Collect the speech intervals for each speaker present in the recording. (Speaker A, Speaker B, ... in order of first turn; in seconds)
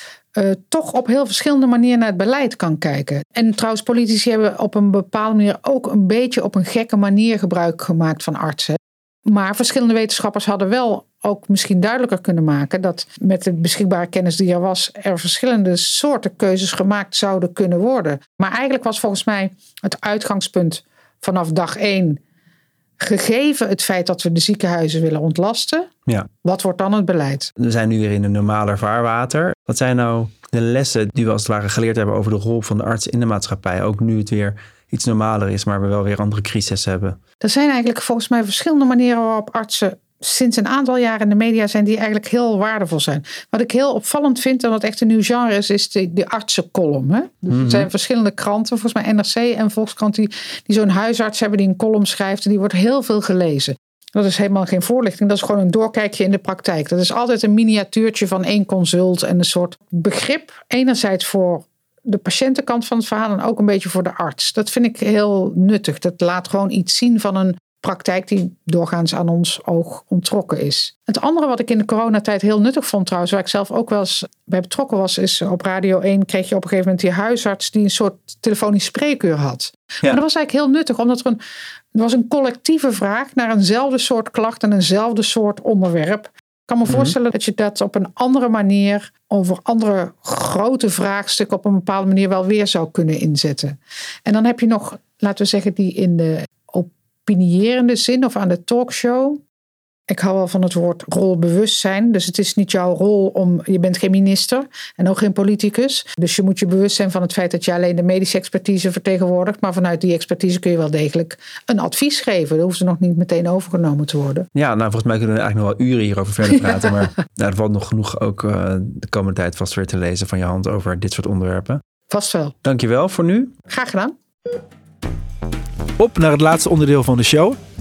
Speaker A: 0.3-22.2, 23.0-25.9, 26.4-27.5, 37.4-81.4, 81.9-99.4, 100.1-114.5, 122.1-122.5, 123.7-124.2
Speaker B: 27.6-37.2, 47.5-47.9, 86.9-87.1, 114.5-121.8, 122.6-123.5, 126.0-127.6